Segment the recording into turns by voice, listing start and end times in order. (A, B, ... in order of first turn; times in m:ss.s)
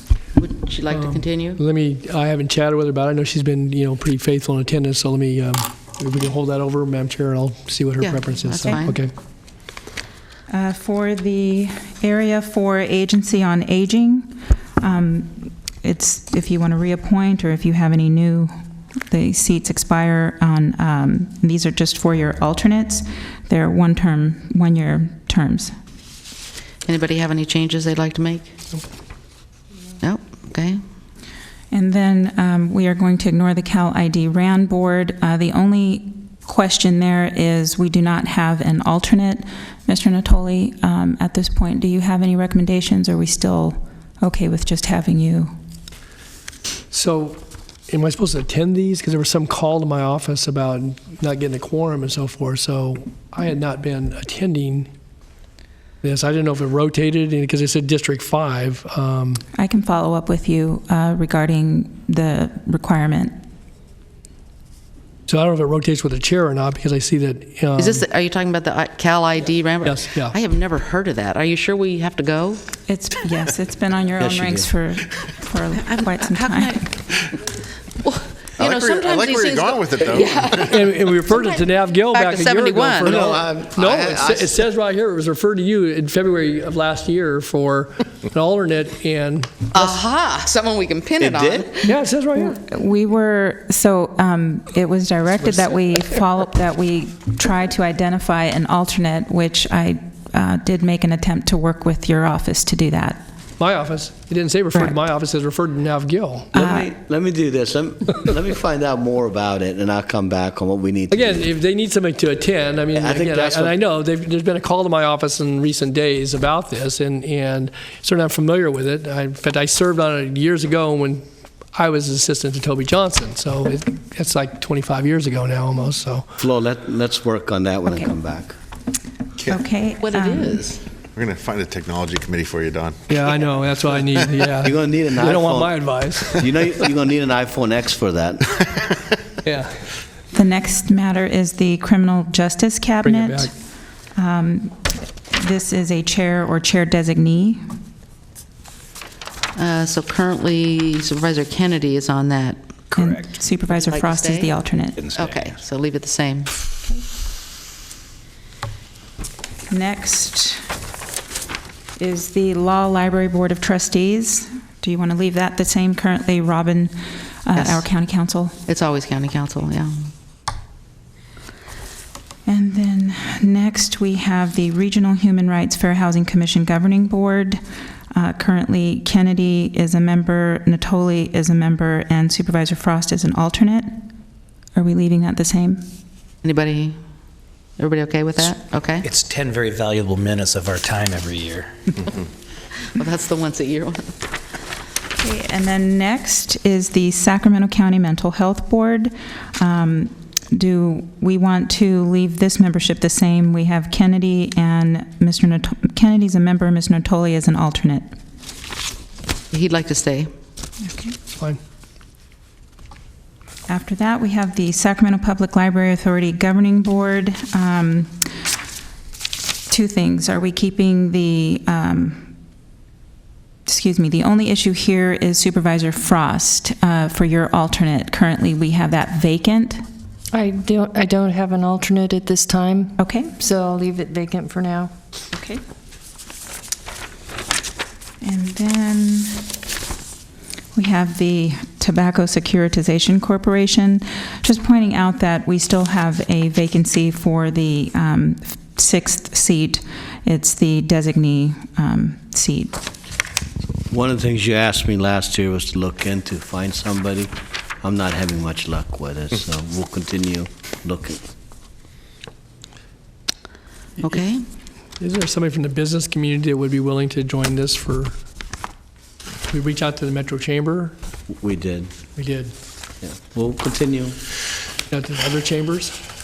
0:00.4-0:01.6 A
0:00.9-0:09.1 B
0:08.0-0:09.0 A
0:10.5-0:18.5 C
0:19.1-0:25.7 C
0:26.9-0:28.6 A
0:30.0-0:30.8 A
0:31.7-0:45.5 C
0:46.9-0:54.9 B
0:56.0-0:59.4 B
0:59.6-1:03.4 C
1:05.3-1:08.0 B
1:07.8-1:12.6 A
1:09.8-1:10.4 B
1:12.9-1:16.9 C
1:14.2-1:14.7 D
1:15.8-1:16.9 A
1:18.0-1:23.4 A
1:18.6-1:20.8 E
1:20.6-1:29.6 B
1:23.0-1:24.5 D
1:29.7-1:31.9 A
1:31.2-1:31.7 D
1:31.8-1:32.6 B
1:32.4-1:43.2 C
1:35.5-1:35.9 B
1:43.6-1:46.5 B
1:46.5-1:51.4 D
1:46.6-1:46.9 C
1:51.1-2:06.3 B
1:52.9-1:53.7 D
2:06.4-2:08.6 D
2:09.5-2:10.7 C
2:10.0-2:10.8 A
2:11.2-2:13.2 E
2:13.1-2:16.7 B
2:14.6-2:15.8 D
2:16.4-2:18.7 D
2:19.4-2:19.7 B
2:20.3-2:23.5 C
2:23.0-2:23.5 B
2:24.2-2:27.6 C
2:29.6-2:32.6 A
2:32.9-2:33.3 F
2:32.9-2:35.0 C
2:33.7-2:34.6 A
2:35.0-2:35.6 F
2:35.1-2:36.5 A
2:39.7-2:40.6 C
2:42.0-2:48.6 C
2:47.6-2:47.9 A
2:48.7-2:50.1 A
2:52.5-3:04.0 C
3:04.8-3:05.8 C
3:06.4-3:07.0 A
3:07.8-3:09.1 A
3:09.0-3:11.8 F
3:12.9-3:14.2 A
3:15.2-3:28.1 C
3:29.5-3:30.3 A
3:30.8-3:31.2 C
3:31.3-3:31.6 B
3:33.7-3:38.2 C
3:39.7-3:42.3 C
3:43.7-3:49.8 C
3:50.3-3:54.9 G
3:53.0-3:53.3 C
3:55.3-3:55.6 C
3:58.2-3:59.5 C
4:00.8-4:12.8 C
4:13.8-4:21.2 D
4:24.0-4:24.4 A
4:25.0-4:28.1 B
4:29.5-4:30.9 B
4:31.3-4:31.9 D
4:32.2-4:32.5 B
4:33.0-4:34.2 D
4:34.9-4:35.9 B